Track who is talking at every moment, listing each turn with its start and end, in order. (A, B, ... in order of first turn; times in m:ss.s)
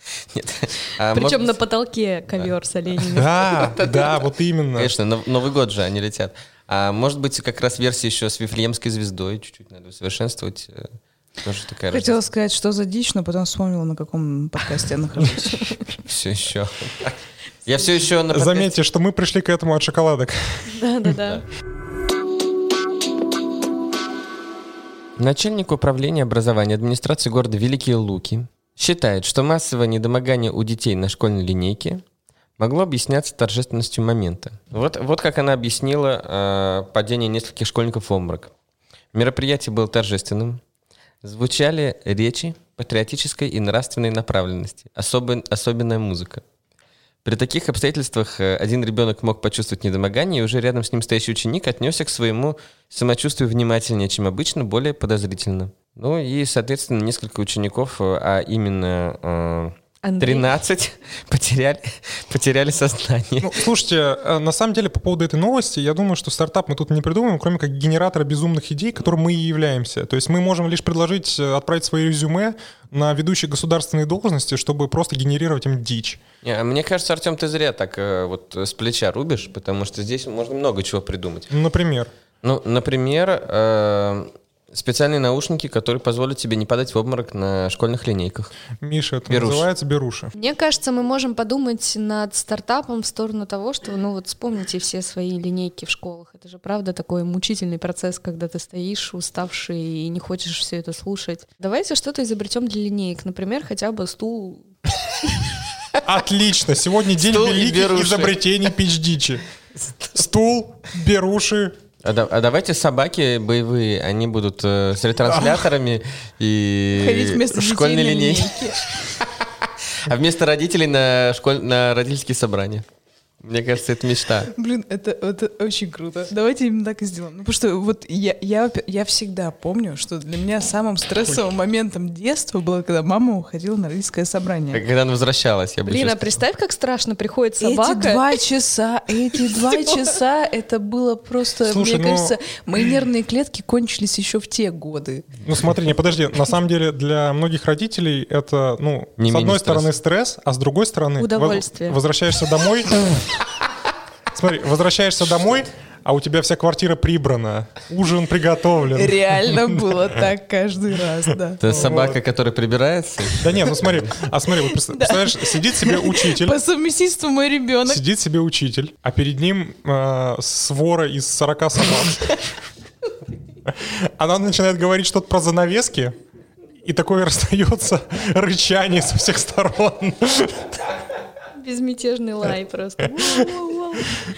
0:00.3-0:01.6 A
0:01.0-0:03.3 B
0:03.1-0:04.9 C
0:03.6-0:04.2 A
0:04.8-0:12.2 A
0:11.9-0:15.8 D
0:16.0-0:18.7 A
0:18.3-0:20.8 C
0:20.7-0:21.4 B
0:25.2-0:32.0 A
0:32.6-0:38.5 A
0:39.1-0:40.6 A
0:41.2-0:46.4 A
0:47.2-1:03.5 A
1:00.0-1:00.5 B
1:03.4-1:16.2 C
1:16.4-1:21.5 A
1:21.5-1:22.1 C
1:22.4-1:28.5 A
1:28.8-1:30.3 C
1:29.3-1:29.6 A
1:30.3-1:44.7 B
1:46.0-1:49.4 C
1:47.2-1:48.4 A
1:50.1-1:51.8 C
1:52.0-2:02.8 A
1:56.9-1:58.9 D
2:03.4-2:04.5 A
2:04.5-2:14.8 D
2:14.7-2:16.3 A
2:15.8-2:18.2 B
2:17.6-2:25.4 D
2:19.5-2:19.9 B
2:21.6-2:22.4 C
2:25.4-2:33.1 C
2:29.2-2:29.9 A
2:31.2-2:32.0 B
2:34.3-2:40.0 C
2:38.9-2:41.6 D
2:41.6-2:44.0 A
2:41.6-2:42.2 C
2:43.4-2:46.6 C
2:44.9-2:48.0 D
2:47.8-2:52.4 C
2:53.6-2:56.2 C
2:56.8-3:00.8 C
3:01.6-3:04.2 B